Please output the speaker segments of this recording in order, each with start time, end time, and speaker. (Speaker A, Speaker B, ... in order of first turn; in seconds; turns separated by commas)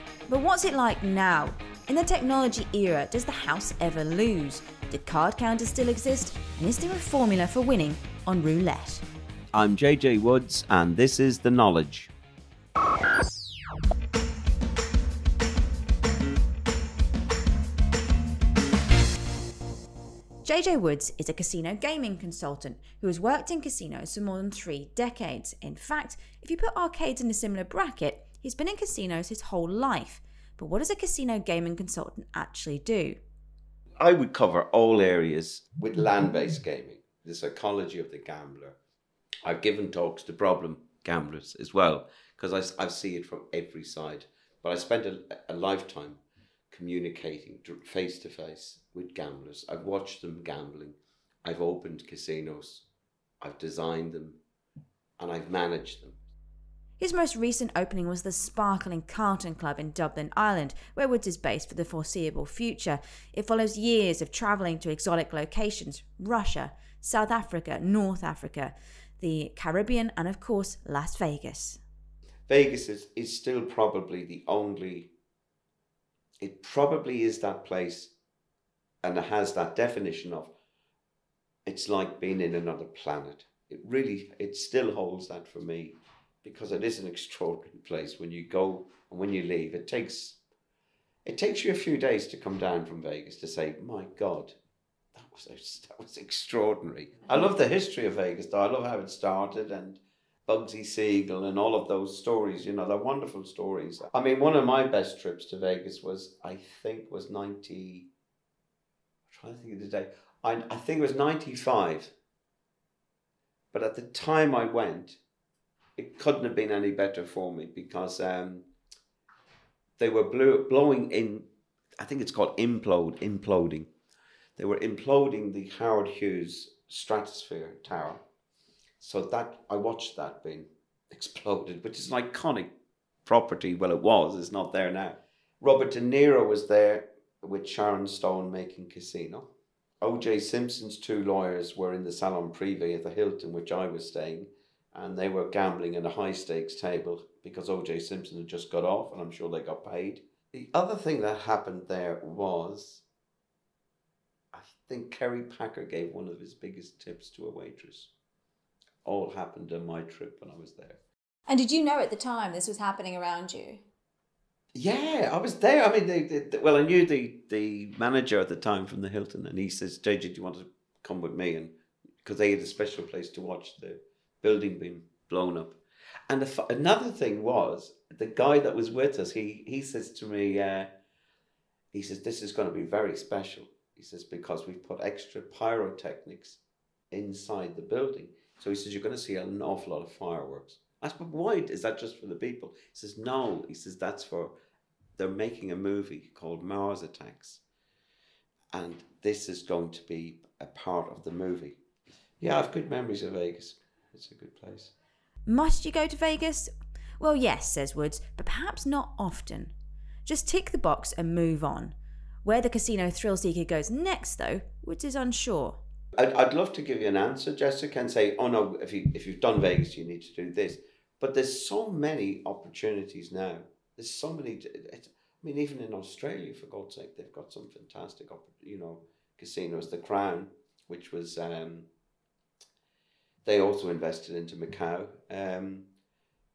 Speaker A: 0.3-9.0, Speaker B: 9.5-12.1, Speaker A: 20.4-33.2, Speaker B: 34.0-38.8, Speaker B: 39.4-52.9, Speaker B: 53.4-54.4, Speaker B: 55.2-56.2, Speaker A: 57.0-71.8, Speaker B: 72.5-75.1, Speaker B: 76.4-78.1, Speaker B: 79.0-80.5, Speaker B: 81.7-90.4, Speaker B: 91.2-94.5, Speaker B: 95.1-108.1, Speaker B: 109.3-112.1, Speaker B: 113.7-115.2, Speaker B: 116.0-118.7, Speaker B: 120.0-121.5, Speaker B: 122.0-123.9, Speaker B: 124.6-128.2, Speaker B: 129.0-132.7, Speaker B: 133.2-139.5, Speaker B: 140.0-153.0, Speaker B: 154.5-158.1, Speaker B: 159.0-161.0, Speaker A: 161.5-163.8, Speaker B: 164.7-180.9, Speaker B: 181.9-186.6, Speaker B: 187.1-194.5, Speaker B: 195.2-197.6, Speaker B: 198.7-201.8, Speaker B: 202.4-204.9, Speaker A: 205.5-209.7, Speaker A: 210.2-215.8, Speaker B: 216.2-231.9, Speaker B: 233.4-235.9